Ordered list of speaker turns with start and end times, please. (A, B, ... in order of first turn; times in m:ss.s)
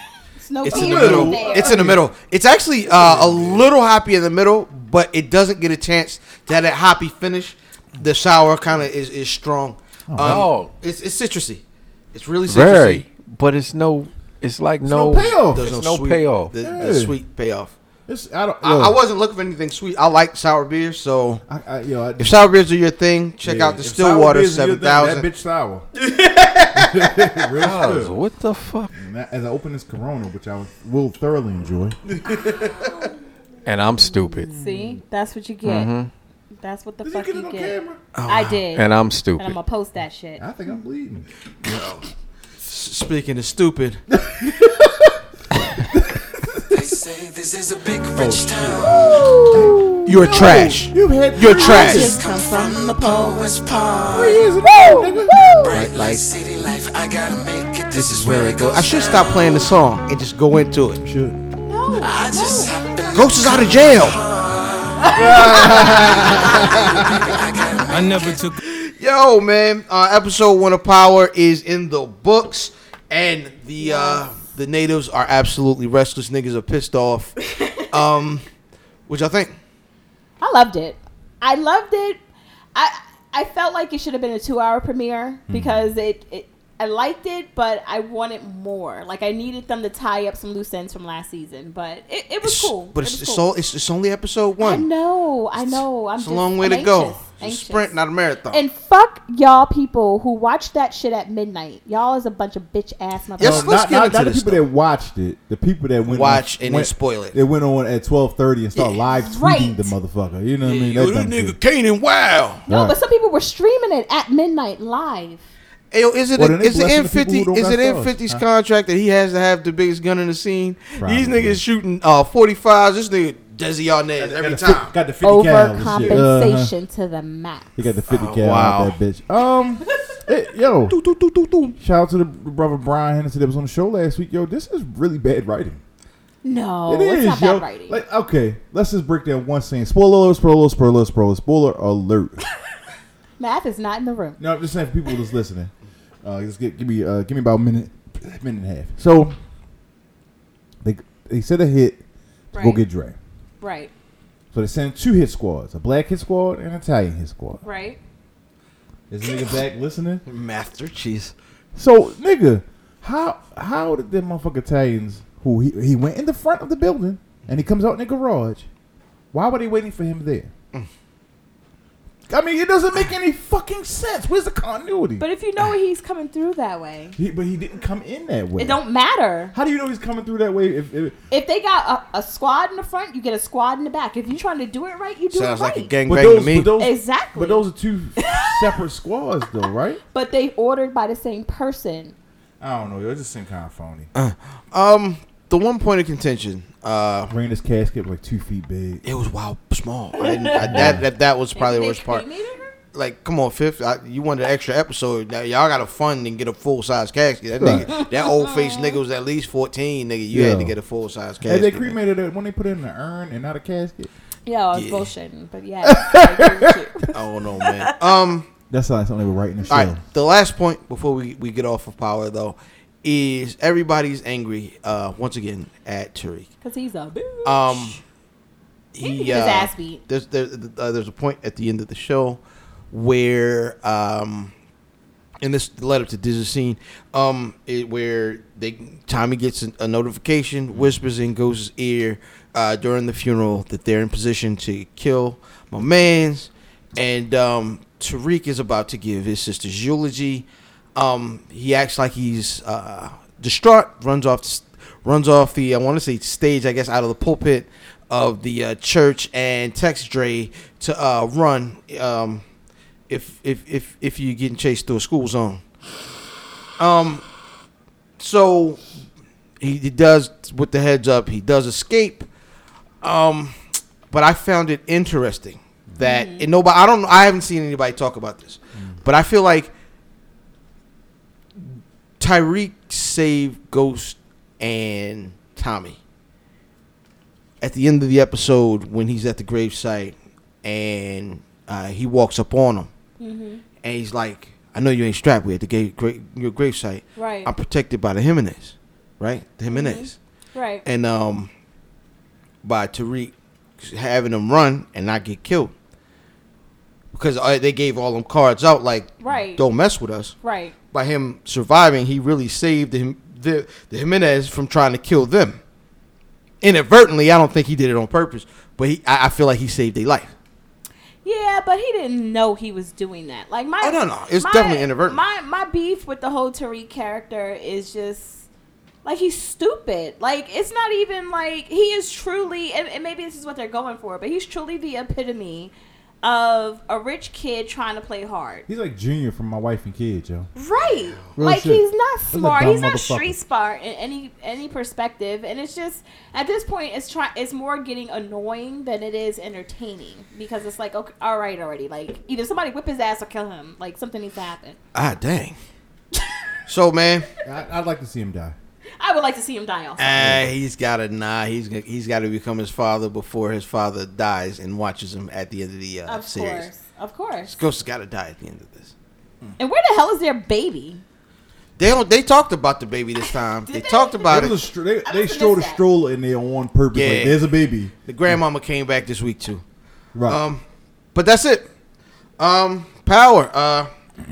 0:00.4-0:01.9 A
0:00.6-0:11.6 B
0:00.7-0:02.0 C
0:02.9-0:03.7 C
0:10.1-0:10.5 C
0:10.2-0:10.7 D
0:12.1-0:13.0 B
0:12.5-0:16.5 D
0:14.8-0:15.7 C
0:15.5-0:17.7 B
0:16.6-0:17.1 C
0:18.1-0:19.0 C
0:18.6-0:21.4 B
0:21.5-0:22.4 C
0:22.2-0:25.2 B
0:23.4-0:25.8 C
0:26.0-0:27.2 B
0:26.7-0:28.1 C
0:27.6-0:28.9 D
0:28.9-0:32.0 C
0:32.1-0:32.8 B
0:33.6-0:34.5 D
0:34.5-0:35.0 C
0:34.5-0:35.9 A
0:35.6-0:36.1 D
0:36.6-0:40.4 A
0:37.0-0:38.0 C
0:38.1-0:38.6 B
0:38.7-0:39.6 D
0:40.4-0:41.3 C
0:41.6-0:42.0 B
0:42.6-0:44.0 B
0:44.1-0:45.2 C
0:45.8-0:47.0 C
0:46.7-0:48.9 E
0:48.1-0:52.2 C
0:48.8-0:49.8 A
0:50.0-0:52.2 B
0:51.4-0:55.8 A
0:54.0-0:55.6 C
0:55.6-0:59.1 E
0:55.7-0:56.3 B
0:57.9-1:01.0 B
1:01.0-1:01.4 C
1:01.7-1:03.3 A
1:02.0-1:08.6 E
1:03.1-1:04.2 B
1:05.0-1:06.1 A
1:05.1-1:07.2 B
1:05.1-1:07.4 C
1:08.6-1:18.4 B
1:13.8-1:14.3 A
1:17.5-1:17.8 A
1:19.1-1:19.6 B
1:20.4-1:22.2 A
1:22.7-1:33.4 A
1:25.5-1:25.9 C
1:32.4-1:34.9 B
1:34.6-1:37.9 A
1:35.6-1:38.6 B
1:38.5-1:43.7 A
1:43.4-1:44.6 B
1:43.4-1:51.6 C
1:46.1-1:47.4 B
1:49.0-1:49.9 A
1:50.6-1:52.6 B
1:52.7-1:53.0 C
1:52.7-1:55.4 A
1:55.9-2:04.9 B
1:56.3-1:58.4 C
2:01.0-2:01.6 C
2:04.2-2:06.7 C
2:05.2-2:07.7 A
2:05.9-2:06.2 B
2:07.8-2:11.0 C
2:08.1-2:08.9 B
2:10.9-2:11.8 B
2:11.8-2:15.8 C
2:16.4-2:18.0 A
2:16.9-2:22.4 C
2:23.4-2:24.4 A
2:24.4-2:25.7 C
2:26.2-2:29.4 C
2:30.8-2:32.0 C
2:32.5-2:32.8 A
2:32.5-2:33.2 C
2:33.6-2:33.9 A
2:34.5-2:37.6 C
2:37.6-2:38.0 A
2:39.1-2:40.2 C
2:40.2-2:41.3 B
2:41.7-2:48.6 C
2:49.3-2:50.5 C
2:52.3-2:55.2 C
2:55.2-2:57.2 A
2:57.2-2:58.8 C
2:58.6-2:59.5 A
2:59.5-3:01.2 C
3:01.3-3:05.9 A
3:05.3-3:06.7 B
3:06.0-3:10.0 C
3:06.8-3:07.6 A
3:08.2-3:08.7 A
3:10.1-3:12.1 A
3:12.6-3:14.1 C
3:14.1-3:17.3 B
3:17.3-3:19.0 C
3:19.0-3:22.2 B
3:20.3-3:20.8 A
3:20.6-3:21.0 C
3:21.5-3:22.8 A
3:22.9-3:31.9 B
3:27.6-3:27.9 C
3:28.0-3:29.0 A
3:30.3-3:30.8 C
3:31.4-3:34.1 C
3:34.4-3:37.9 A
3:34.7-3:35.1 B
3:35.8-3:36.7 C
3:37.1-3:38.5 B
3:38.7-3:40.0 C
3:39.7-3:46.5 B
3:46.6-3:48.0 A
3:47.4-3:48.0 B
3:48.9-3:54.5 B
3:49.0-3:50.0 A
3:55.4-4:22.4 B
4:23.1-4:25.6 B
4:26.8-4:27.2 B
4:28.2-4:28.8 B
4:29.6-4:32.3 B
4:33.0-4:39.7 B
4:36.0-4:36.5 A
4:42.2-4:46.0 B
4:47.6-4:52.9 B
4:53.2-4:53.6 A
4:53.8-5:00.2 B
4:57.2-4:57.5 A
4:59.7-5:00.8 A
5:00.8-5:01.5 B
5:02.6-5:05.7 B
5:07.1-5:10.4 B
5:09.2-5:09.6 A
5:10.4-5:10.7 A
5:10.9-5:15.6 B
5:16.6-5:20.3 B
5:21.2-5:28.5 A
5:23.8-5:25.2 B
5:29.0-5:38.6 A
5:38.7-5:40.5 C
5:40.5-5:54.8 A
5:41.4-5:43.4 C
5:54.9-5:55.6 B
5:56.7-5:57.3 B
5:57.4-5:58.5 C
5:59.0-6:00.2 A
6:00.0-6:06.7 B
6:00.1-6:00.5 C
6:06.0-6:07.5 A
6:07.4-6:08.9 B
6:09.6-6:11.0 A
6:11.8-6:14.6 B
6:13.6-6:15.8 A
6:14.3-6:17.9 C
6:16.9-6:17.4 B
6:18.0-6:19.6 B
6:20.1-6:20.4 C
6:20.2-6:20.6 B
6:21.1-6:21.7 B
6:22.4-6:23.9 B